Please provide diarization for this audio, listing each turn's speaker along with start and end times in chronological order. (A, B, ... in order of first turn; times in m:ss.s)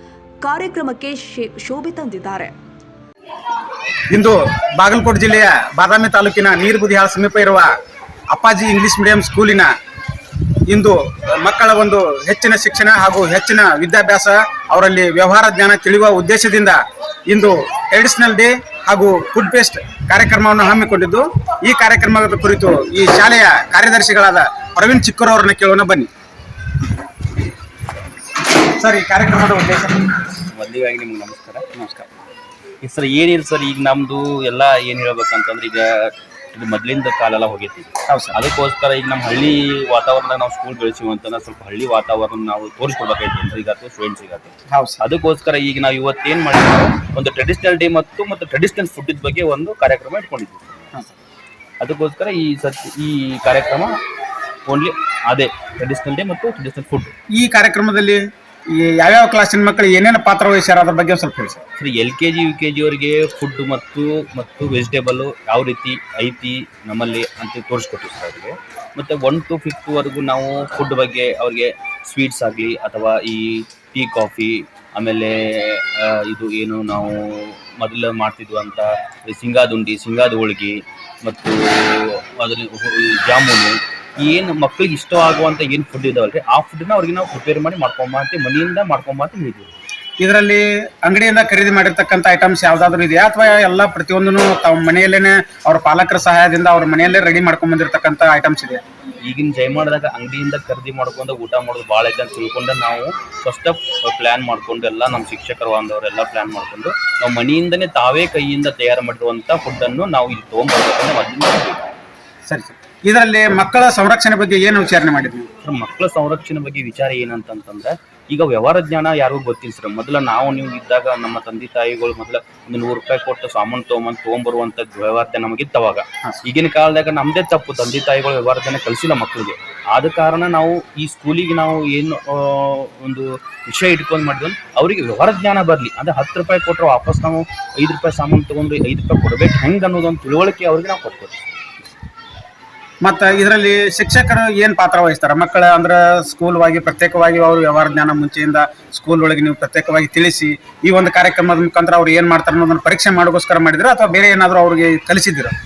0:00.4-0:02.5 A
0:04.1-0:07.7 B
0:08.3-0:09.7 B
0:10.7-0:26.1 B
0:28.8-0:30.1 B
0:30.5-0:31.6 C
0:31.7-0:32.1 B
0:32.8-0:51.1 C
0:38.1-0:38.4 B
0:44.7-0:45.0 B
0:51.8-0:53.9 C
0:54.7-0:57.1 C
0:57.3-0:58.2 B
0:58.7-1:01.6 B
1:01.8-1:29.7 C
1:30.2-1:38.8 B
1:39.2-1:52.0 C
1:52.5-1:55.5 B
1:55.6-2:21.9 C
2:23.0-2:35.5 B